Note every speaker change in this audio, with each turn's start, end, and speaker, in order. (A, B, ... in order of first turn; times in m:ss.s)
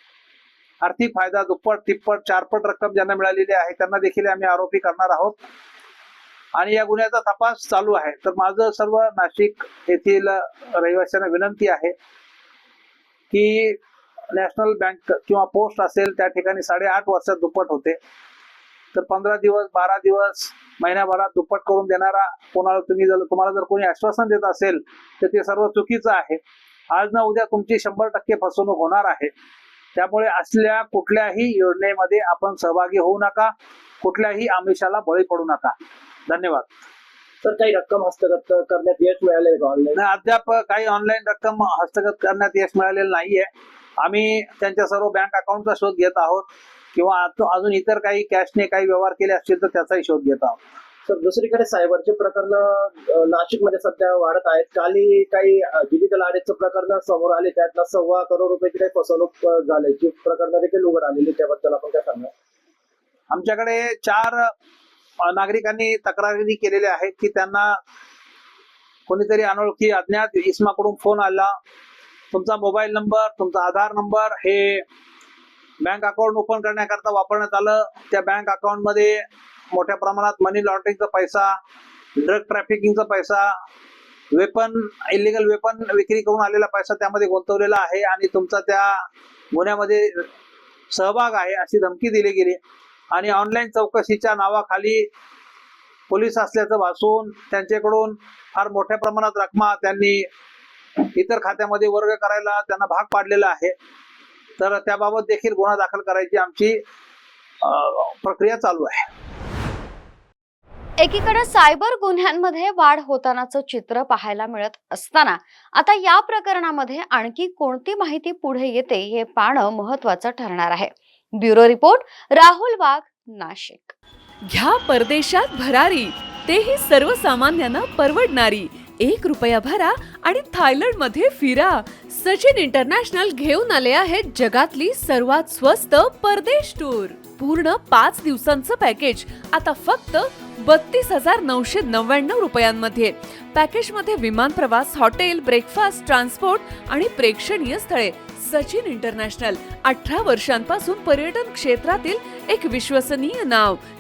0:00.8-0:05.4 A
0:06.6-0:11.9 A
0:13.3-0:13.8 A
0:14.3-0:18.0 A
0:18.9-0:26.4 A
0:26.9-0:29.3 A
0:30.0-0:35.8 A
0:36.3-0:36.7 A
0:37.4-0:40.0 B
0:40.0-0:43.5 A
0:44.0-0:50.6 A
0:51.1-1:02.3 B
1:03.3-1:04.5 A
1:05.2-1:07.8 A
1:09.1-1:11.5 A
1:12.3-1:14.8 A
1:15.8-1:21.6 A
1:22.2-1:23.5 A
1:24.3-1:30.3 A
1:30.9-1:32.6 A
1:33.1-1:35.1 A
1:36.1-1:40.3 A
1:41.0-1:43.7 A
1:44.6-1:46.8 A
1:47.6-1:49.1 A
1:51.0-2:04.0 C
2:04.4-2:33.8 D